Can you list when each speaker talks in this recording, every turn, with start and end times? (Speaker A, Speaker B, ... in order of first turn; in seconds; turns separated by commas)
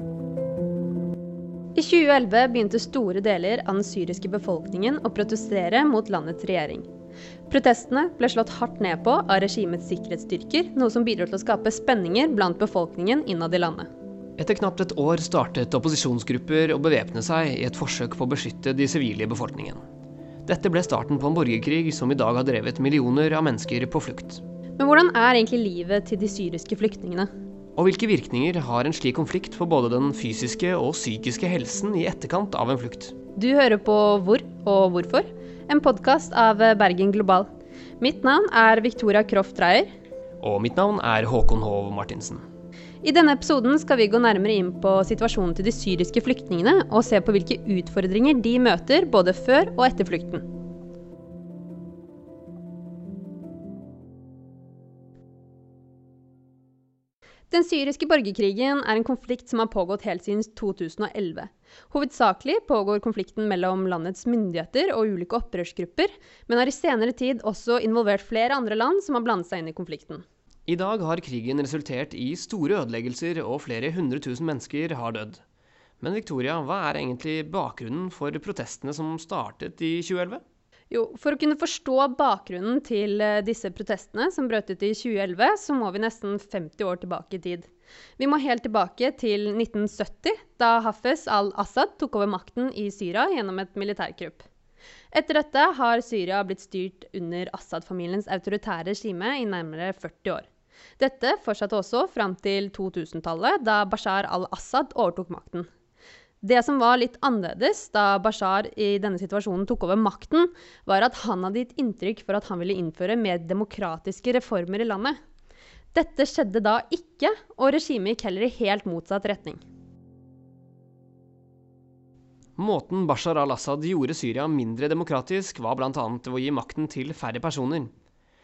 Speaker A: 1.7-6.9, Speaker A: 7.5-13.9, Speaker B: 14.4-19.8, Speaker B: 20.4-24.4, Speaker A: 24.8-27.3, Speaker B: 27.8-33.1, Speaker A: 33.4-37.5, Speaker A: 38.0-39.9, Speaker B: 40.4-42.4, Speaker A: 43.0-50.5, Speaker A: 57.5-70.2, Speaker B: 70.7-75.4, Speaker B: 76.0-80.4, Speaker A: 80.9-94.4, Speaker A: 95.1-100.5, Speaker A: 101.0-105.7, Speaker A: 106.4-115.2, Speaker A: 115.9-119.6, Speaker B: 122.6-127.9